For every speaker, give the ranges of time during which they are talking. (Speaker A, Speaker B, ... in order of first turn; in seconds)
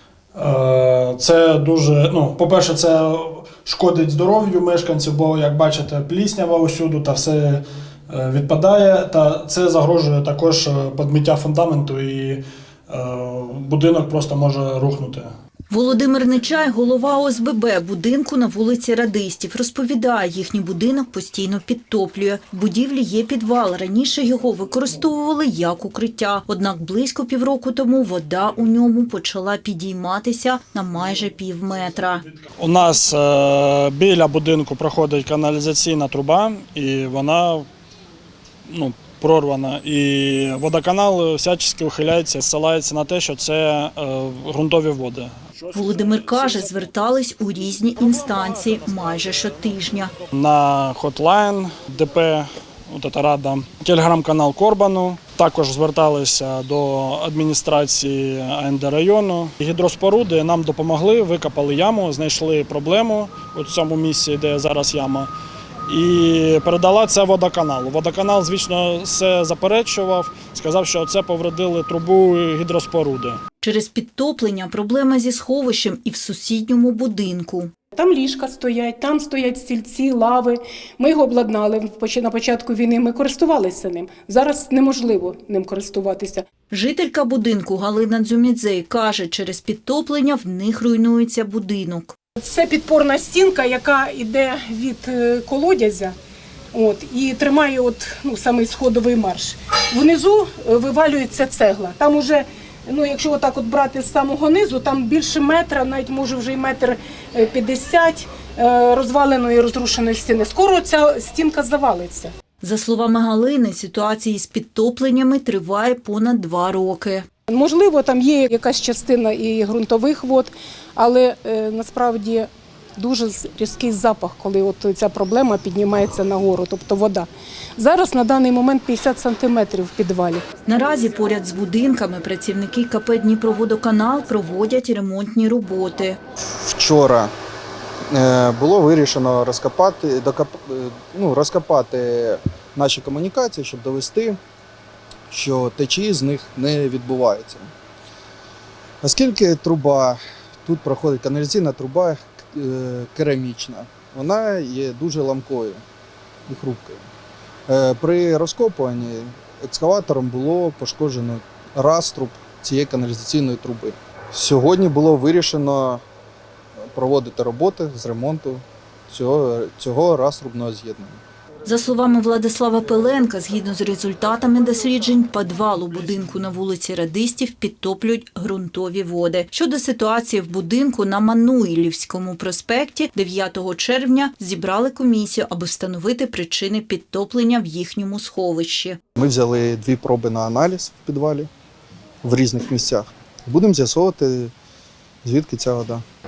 Speaker A: 0.3-15.3, 32.6-37.6, 38.6-45.5, 50.3-65.3, 65.9-73.4
Speaker B: 15.7-32.2, 45.7-50.1, 73.6-77.7, 86.7-92.1, 112.6-117.2, 130.7-136.2, 171.7-189.0
Speaker C: 77.9-86.4, 92.4-96.1, 96.7-112.3, 117.5-130.5
Speaker D: 136.6-137.3, 138.1-144.4, 145.3-147.7, 149.0-155.8, 156.5-157.0, 157.7-166.0, 166.9-171.2, 189.2-191.5, 192.2-194.5, 195.2-196.0